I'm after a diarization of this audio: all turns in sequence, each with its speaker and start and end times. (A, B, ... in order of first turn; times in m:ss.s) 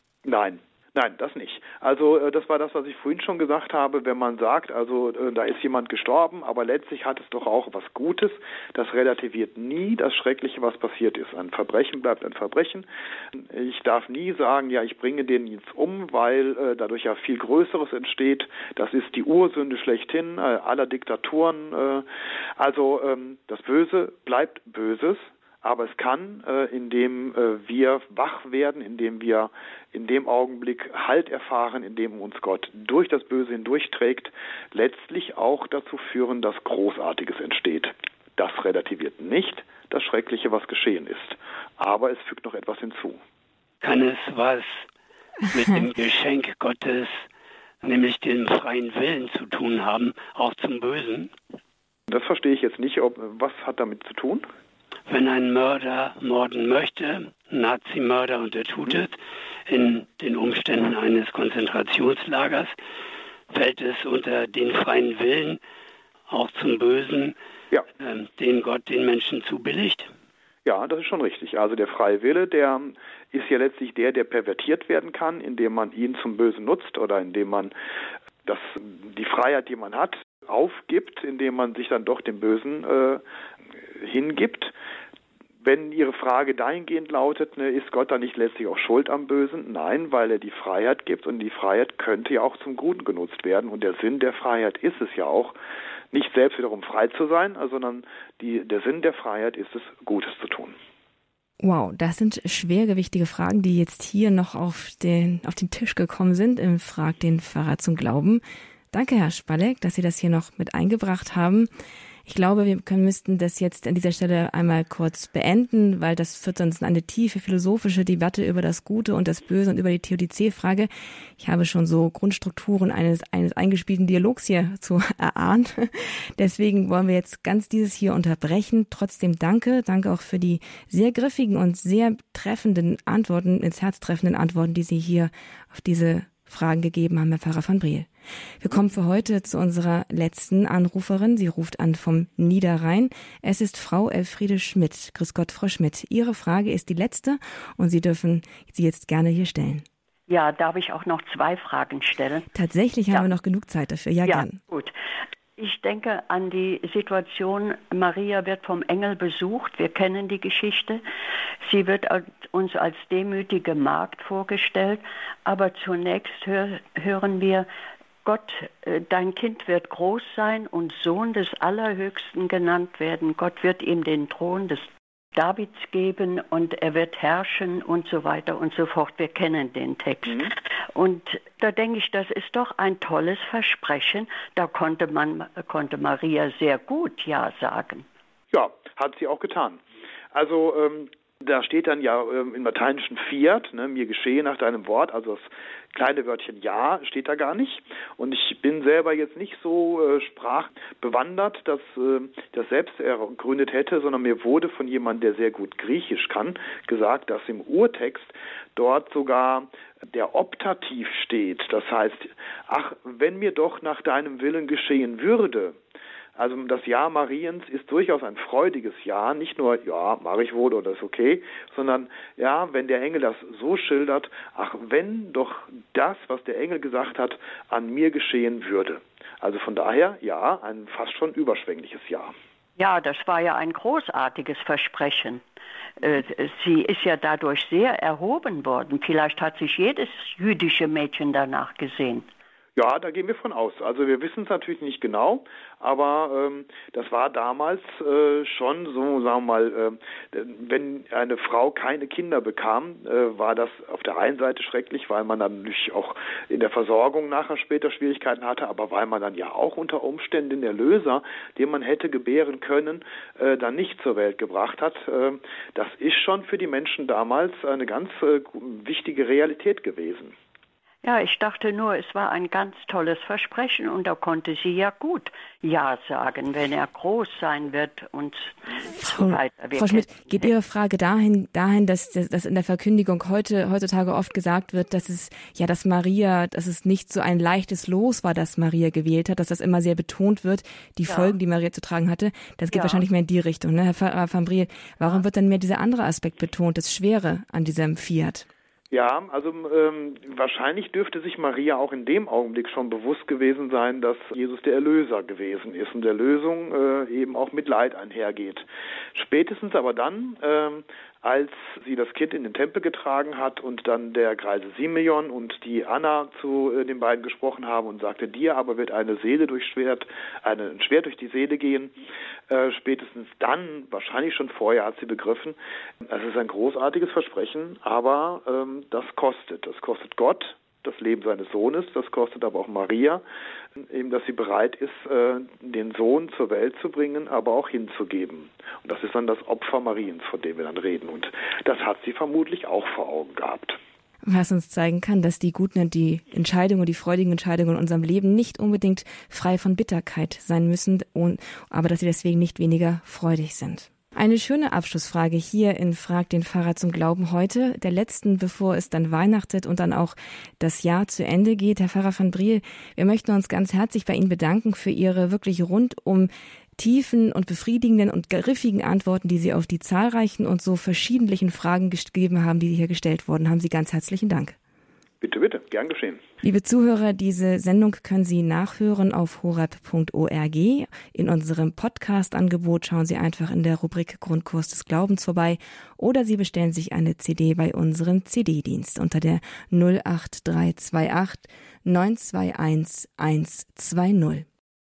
0:00.2-0:22.0 A
0:22.6-0:43.2 A
0:43.8-0:44.9 B
0:45.5-0:47.3 B
0:47.8-0:51.3 B
0:52.1-0:54.4 A
0:55.1-1:02.7 B
1:03.5-1:05.6 B
1:06.3-1:07.4 B
1:08.0-1:10.1 B
1:10.6-1:17.7 A
1:18.4-1:23.2 A
1:23.9-1:24.7 A
1:25.6-1:35.6 A
1:36.1-1:40.8 A
1:41.6-1:51.7 C
1:52.3-2:18.1 C
2:18.6-2:29.8 C
2:30.3-2:32.5 D
2:32.5-2:34.6 C
2:34.2-2:34.9 D
2:35.6-2:41.0 D
2:41.6-2:47.7 D
2:48.2-3:08.0 D
3:08.5-3:09.8 A
3:10.3-3:35.8 A
3:36.4-3:52.3 A
3:52.8-3:55.4 D
3:56.0-4:02.3 D
4:02.8-4:30.4 A
4:31.0-4:40.5 D
4:38.9-4:58.4 C
4:51.0-4:51.4 D
4:52.7-4:53.0 D
4:58.9-5:22.0 A
5:22.5-5:33.2 A
5:33.8-5:43.8 A
5:44.2-6:14.6 C
6:15.2-6:16.2 A
6:16.4-6:34.4 C